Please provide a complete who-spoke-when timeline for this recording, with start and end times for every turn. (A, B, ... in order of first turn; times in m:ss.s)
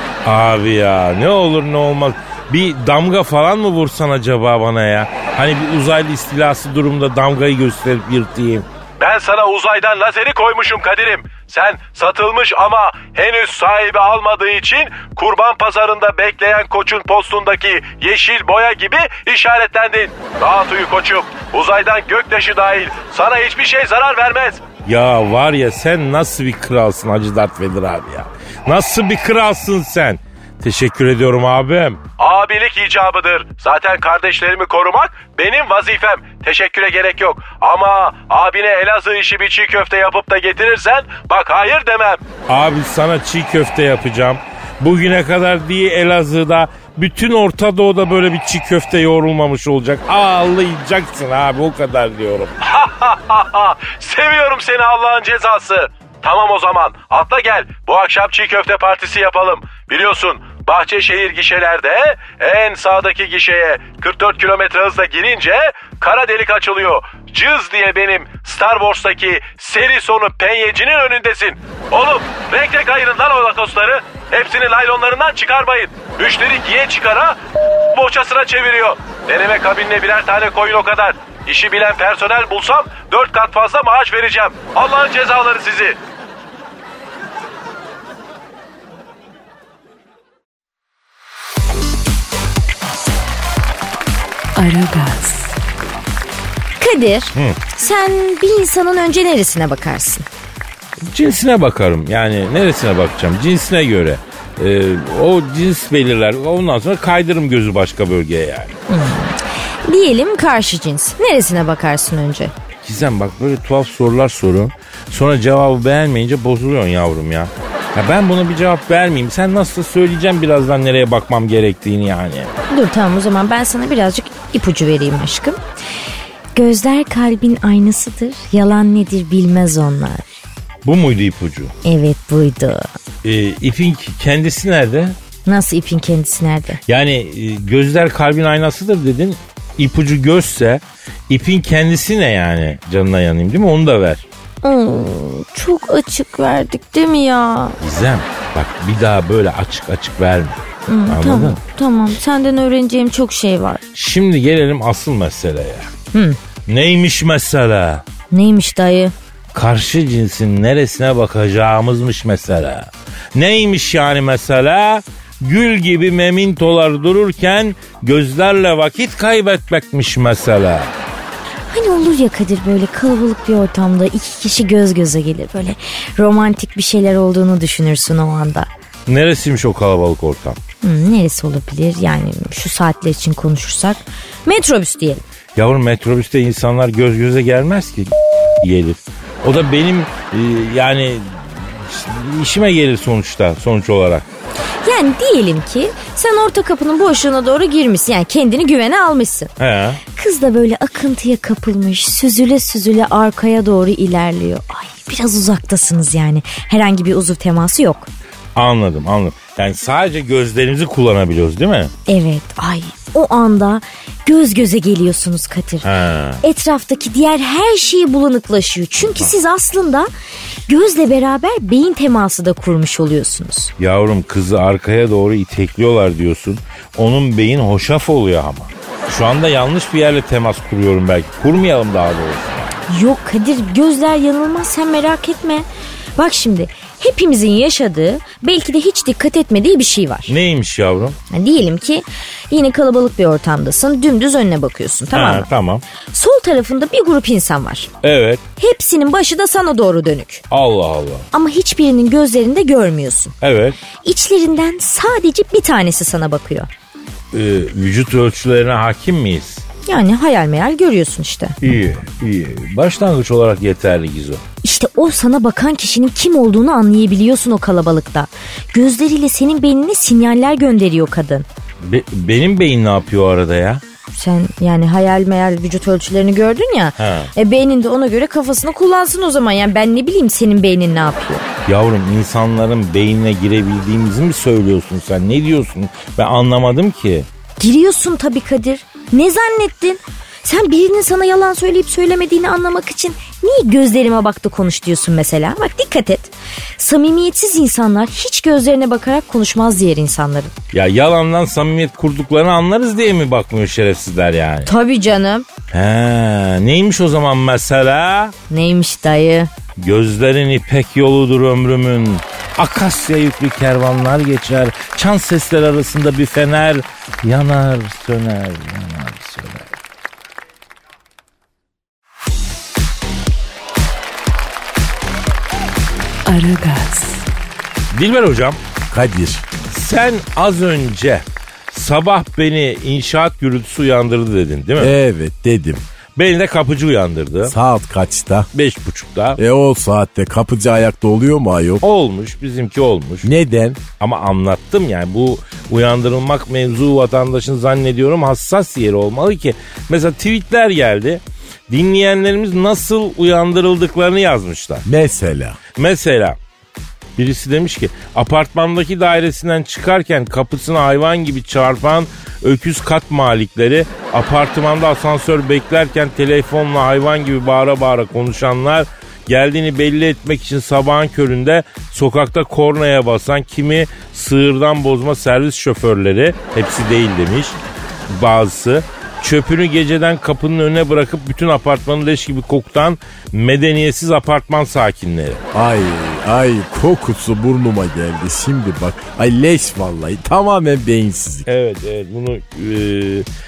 0:00.2-0:08.6 A
0:09.0-0:24.6 B
0:24.8-0:32.0 A
0:32.2-0:42.2 B
0:42.5-0:52.6 A
0:52.6-1:17.4 B
1:17.9-1:26.0 B
1:34.6-1:35.6 C
1:36.8-1:40.2 D
1:41.0-1:48.7 A
1:48.9-1:52.5 D
1:52.8-2:02.5 A
2:02.7-2:05.6 D
2:06.5-2:10.2 D
2:10.8-2:11.7 A
2:11.8-2:12.9 D
2:13.2-2:15.2 A
2:15.4-2:16.8 D
2:16.9-2:24.2 A
2:24.6-2:27.8 D
2:27.8-2:31.6 A
2:30.9-2:33.8 D
2:33.9-2:35.9 A
2:36.1-2:36.4 D
2:36.7-2:38.0 A
2:38.3-2:39.1 D
2:39.5-2:50.9 A
2:51.7-2:58.7 D
2:59.1-3:00.6 A
3:00.8-3:05.2 D
3:05.6-3:14.2 A
3:14.8-3:19.5 D
3:19.6-3:20.0 A
3:20.1-3:28.1 D
3:28.5-3:31.9 A
3:32.1-3:35.9 D
3:35.8-3:36.4 A
3:36.4-3:40.1 D
3:40.7-3:43.7 D
3:43.8-3:52.8 A
3:52.9-4:00.3 D
4:00.3-4:01.2 A
4:01.3-4:05.5 D
4:05.1-4:05.8 A
4:06.1-4:07.9 D
4:08.0-4:08.4 A
4:08.6-4:10.4 D
4:10.5-4:11.3 A
4:11.3-4:13.3 D
4:13.4-4:13.8 A
4:14.0-4:16.7 D
4:17.3-4:19.6 A
4:19.8-4:21.6 D
4:21.6-4:24.4 A
4:24.6-4:31.4 D
4:31.8-4:33.8 A
4:34.1-4:41.4 D
4:37.0-4:37.3 A
4:41.6-4:47.3 A
4:47.6-5:00.5 D
5:00.7-5:04.7 A
5:04.6-5:05.5 D
5:05.7-5:08.3 A
5:08.5-5:09.5 D
5:09.8-5:19.7 A
5:26.2-5:27.2 C
5:27.9-5:28.6 A
5:28.9-5:29.5 E
5:29.7-5:34.9 A
5:34.8-5:35.8 E
5:36.2-5:37.5 A
5:37.4-5:38.5 E
5:38.5-5:39.4 A
5:39.4-5:41.8 E
5:41.8-5:43.3 A
5:43.2-5:43.8 E
5:44.0-5:54.8 A
5:54.8-5:55.6 E
5:55.7-5:56.4 A
5:57.2-6:17.6 A
6:18.1-6:25.4 A
6:25.5-6:31.5 E
6:31.5-6:33.2 A